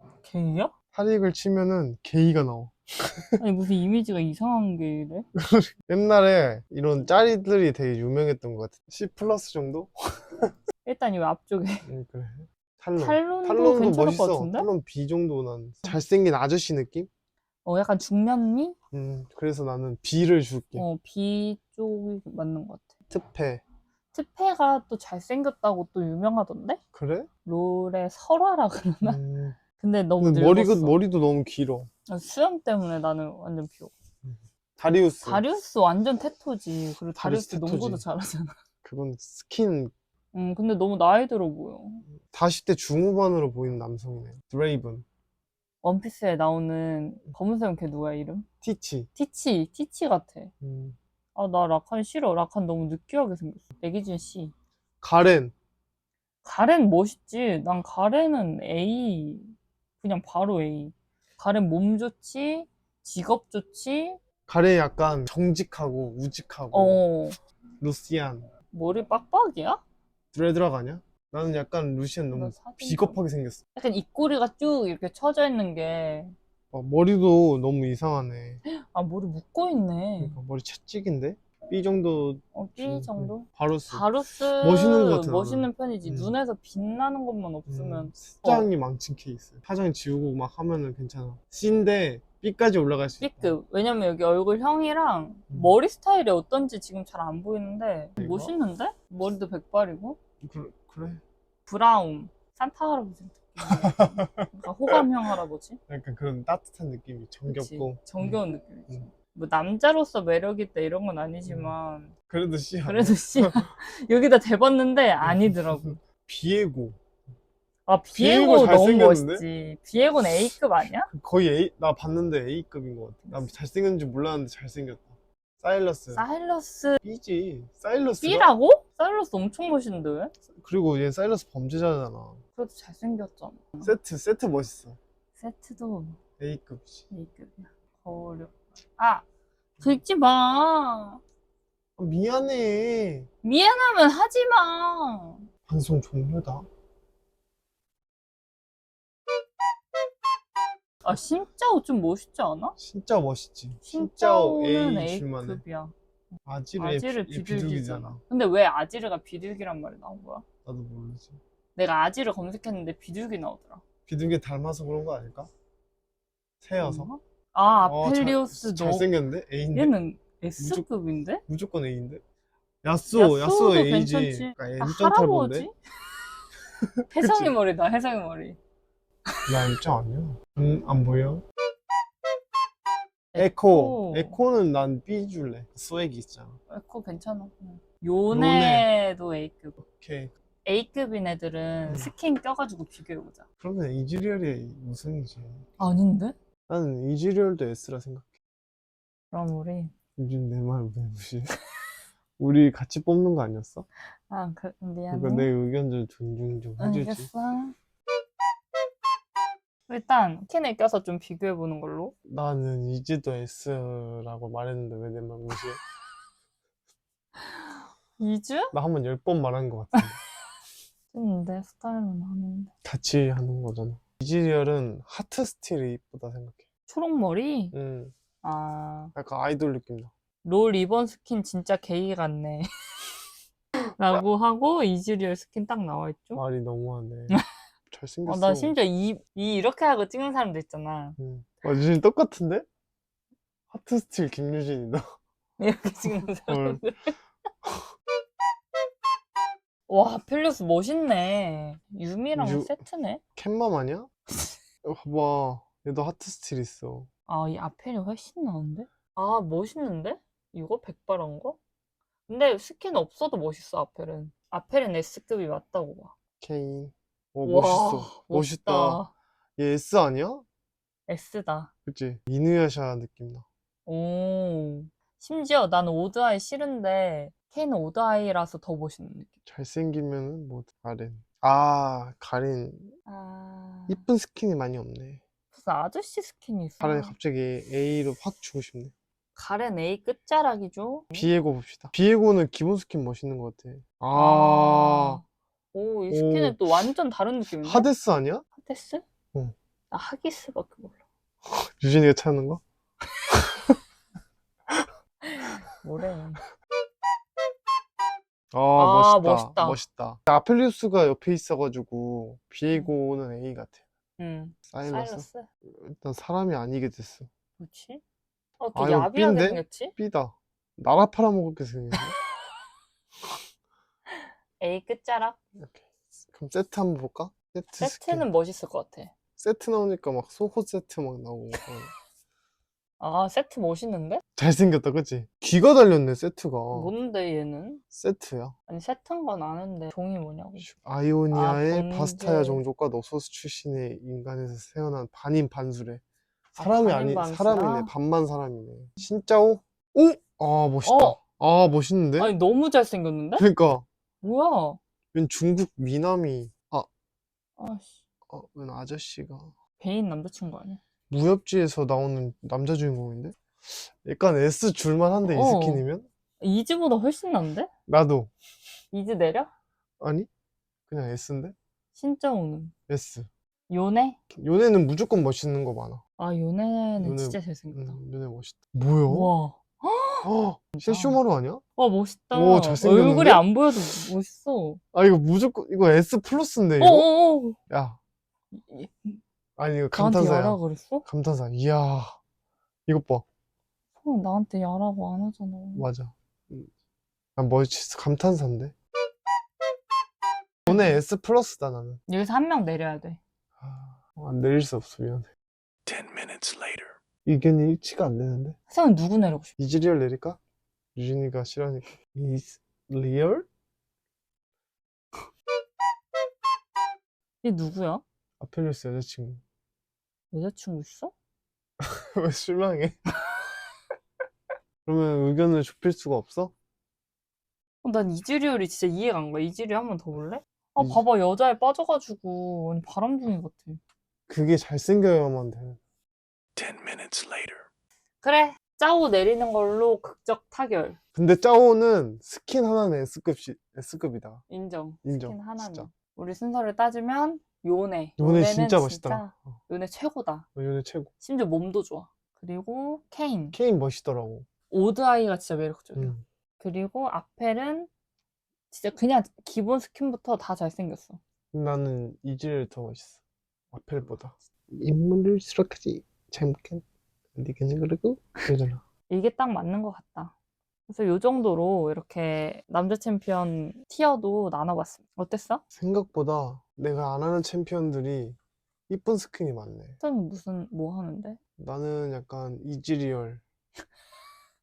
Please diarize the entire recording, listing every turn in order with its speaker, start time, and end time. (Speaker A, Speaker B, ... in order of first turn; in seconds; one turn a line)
Speaker A: 0.2-0.7
Speaker B: 0.9-3.4
Speaker A: 3.4-5.2
Speaker B: 5.4-10.5
Speaker A: 10.8-11.9
Speaker B: 11.9-17.1
Speaker A: 13.0-14.7
Speaker A: 17.6-18.8
Speaker B: 18.9-20.9
Speaker A: 20.8-22.9
Speaker B: 23.1-23.6
Speaker A: 24.1-26.8
Speaker B: 26.9-27.3
Speaker A: 27.5-29.2
Speaker B: 29.0-29.6
Speaker A: 29.8-31.0
Speaker B: 30.2-31.9
Speaker A: 32.1-33.9
Speaker B: 34.2-35.4
Speaker A: 35.2-38.5
Speaker B: 37.2-38.1
Speaker B: 38.8-39.9
Speaker A: 40.3-42.1
Speaker B: 42.2-45.0
Speaker A: 45.8-48.5
Speaker B: 48.6-49.1
Speaker A: 49.2-50.5
Speaker B: 50.6-51.0
Speaker A: 51.4-54.5
Speaker B: 55.0-55.5
Speaker A: 56.4-64.2
Speaker B: 64.5-67.0
Speaker A: 66.7-67.4
Speaker B: 67.8-68.5
Speaker A: 68.7-69.8
Speaker B: 70.3-73.6
Speaker A: 72.3-73.2
Speaker A: 73.8-76.3
Speaker B: 76.7-78.6
Speaker A: 78.7-80.4
Speaker B: 80.2-86.4
Speaker A: 82.5-88.7
Speaker B: 87.7-93.5
Speaker A: 93.2-100.2
Speaker B: 95.5-95.8
Speaker B: 98.2-98.5
Speaker B: 100.4-101.2
Speaker A: 101.7-105.8
Speaker B: 103.6-105.0
Speaker B: 105.9-109.0
Speaker A: 107.5-112.1
Speaker B: 111.5-111.8
Speaker B: 112.3-113.6
Speaker A: 112.8-116.0
Speaker B: 115.2-117.0
Speaker A: 117.9-121.1
Speaker B: 118.1-119.5
Speaker B: 121.1-126.3
Speaker A: 126.1-127.0
Speaker B: 127.0-128.5
Speaker A: 128.2-130.3
Speaker B: 130.6-132.4
Speaker A: 132.6-133.9
Speaker B: 133.8-135.0
Speaker A: 135.4-136.2
Speaker B: 136.4-137.1
Speaker A: 137.1-139.2
Speaker A: 139.8-141.2
Speaker B: 142.0-143.3
Speaker A: 143.4-145.5
Speaker B: 145.7-146.7
Speaker A: 151.0-152.8
Speaker B: 152.8-155.6
Speaker A: 153.8-155.9
Speaker B: 156.5-158.2
Speaker A: 156.8-160.5
Speaker B: 160.7-161.4
Speaker A: 161.8-163.8
Speaker B: 164.1-165.5
Speaker B: 166.6-167.1
Speaker A: 166.8-169.1
Speaker B: 167.8-169.9
Speaker A: 169.7-171.4
Speaker B: 170.6-170.9
Speaker B: 171.5-172.2
Speaker B: 172.8-175.7
Speaker A: 173.1-175.7
Speaker B: 176.8-177.5
Speaker A: 177.1-178.6
Speaker B: 179.5-181.4
Speaker A: 183.3-184.4
Speaker B: 183.4-186.6
Speaker A: 186.7-189.8
Speaker B: 188.3-188.9
Speaker B: 189.8-190.3
Speaker A: 190.7-193.4
Speaker B: 191.9-192.1
Speaker B: 193.6-195.7
Speaker A: 195.8-196.3
Speaker B: 196.7-198.3
Speaker A: 199.3-199.9
Speaker B: 200.2-201.6
Speaker B: 202.4-203.9
Speaker A: 204.3-205.5
Speaker B: 205.1-207.3
Speaker A: 206.8-207.8
Speaker A: 209.9-212.1
Speaker B: 212.3-215.8
Speaker A: 217.4-218.7
Speaker B: 218.7-220.2
Speaker A: 221.1-222.7
Speaker B: 222.8-226.6
Speaker A: 226.9-227.8
Speaker B: 227.7-228.2
Speaker A: 228.4-229.1
Speaker B: 229.2-230.1
Speaker A: 230.4-233.1
Speaker A: 233.8-236.4
Speaker B: 236.3-237.4
Speaker B: 237.9-238.8
Speaker A: 238.3-241.2
Speaker B: 241.2-242.7
Speaker B: 243.7-245.1
Speaker A: 245.6-247.1
Speaker B: 246.5-246.8
Speaker A: 249.9-253.2
Speaker B: 252.4-252.8
Speaker B: 253.4-254.1
Speaker B: 254.8-257.1
Speaker A: 257.3-261.6
Speaker A: 262.3-266.1
Speaker B: 266.4-269.0
Speaker A: 267.4-269.1
Speaker B: 269.6-270.4
Speaker A: 271.1-271.7
Speaker B: 271.9-273.4
Speaker A: 273.9-279.3
Speaker B: 279.5-282.9
Speaker A: 283.1-284.0
Speaker B: 283.9-285.2
Speaker A: 285.5-287.1
Speaker B: 286.8-288.9
Speaker A: 289.4-291.3
Speaker B: 291.1-295.2
Speaker A: 294.1-295.2
Speaker A: 295.7-297.9
Speaker B: 296.1-296.6
Speaker B: 297.5-298.4
Speaker A: 298.6-299.0
Speaker A: 299.9-301.0
Speaker B: 301.5-302.6
Speaker A: 305.2-306.4
Speaker B: 308.5-313.8
Speaker A: 308.8-309.8
Speaker A: 314.2-315.5
Speaker B: 314.7-317.3
Speaker A: 317.6-318.0
Speaker A: 318.6-319.9
Speaker B: 318.8-322.1
Speaker A: 324.1-325.4
Speaker B: 325.6-328.3
Speaker A: 327.8-329.1
Speaker B: 329.4-331.9
Speaker A: 333.0-334.2
Speaker B: 334.4-336.9
Speaker A: 336.7-337.8
Speaker B: 337.9-338.5
Speaker A: 338.7-340.7
Speaker B: 340.6-346.0
Speaker A: 341.3-342.6
Speaker B: 346.6-352.3
Speaker A: 346.6-347.9
Speaker A: 350.8-351.2
Speaker A: 352.2-353.5
Speaker B: 353.4-353.9
Speaker A: 354.2-354.8
Speaker B: 355.1-356.9
Speaker A: 357.6-358.0
Speaker B: 358.3-359.5
Speaker A: 359.8-360.8
Speaker B: 361.1-366.1
Speaker A: 365.3-365.8
Speaker A: 366.4-367.7
Speaker B: 367.9-368.3
Speaker A: 368.9-369.5
Speaker B: 370.0-370.3
Speaker B: 370.9-371.6
Speaker A: 372.0-372.7
Speaker B: 372.9-373.3
Speaker A: 373.7-374.2
Speaker B: 374.3-376.0
Speaker A: 376.2-378.0
Speaker B: 377.0-379.3
Speaker A: 379.1-381.2
Speaker B: 380.2-381.6
Speaker A: 381.8-384.8
Speaker B: 382.3-384.1
Speaker B: 384.9-387.1
Speaker A: 386.8-387.6
Speaker B: 387.7-388.0
Speaker A: 388.5-389.2
Speaker B: 389.6-392.2
Speaker A: 389.9-391.1
Speaker B: 392.9-393.2
Speaker A: 394.0-395.9
Speaker B: 395.8-396.7
Speaker B: 397.4-398.7
Speaker B: 400.7-402.0
Speaker A: 400.7-401.0
Speaker A: 402.1-403.2
Speaker B: 403.6-405.3
Speaker C: 405.9-406.8
Speaker B: 407.2-408.6
Speaker A: 408.7-409.5
Speaker B: 409.6-410.4
Speaker B: 410.9-413.5
Speaker A: 417.4-418.0
Speaker B: 418.4-419.4
Speaker A: 420.3-421.1
Speaker B: 421.8-423.0
Speaker B: 424.9-426.5
Speaker A: 427.8-433.8
Speaker B: 430.8-431.0
Speaker B: 434.3-435.8
Speaker C: 436.6-437.6
Speaker A: 438.2-441.0
Speaker B: 441.1-444.4
Speaker A: 444.5-450.5
Speaker B: 445.0-445.9
Speaker B: 448.2-449.6
Speaker B: 450.6-451.1
Speaker A: 451.2-453.6
Speaker B: 453.5-454.5
Speaker A: 454.7-457.9
Speaker B: 456.0-456.2
Speaker A: 458.7-461.2
Speaker B: 461.5-463.2
Speaker B: 463.7-466.8
Speaker B: 467.4-468.8
Speaker A: 469.1-470.3
Speaker A: 470.9-475.6
Speaker B: 475.7-480.0
Speaker A: 480.0-481.4
Speaker B: 481.6-483.4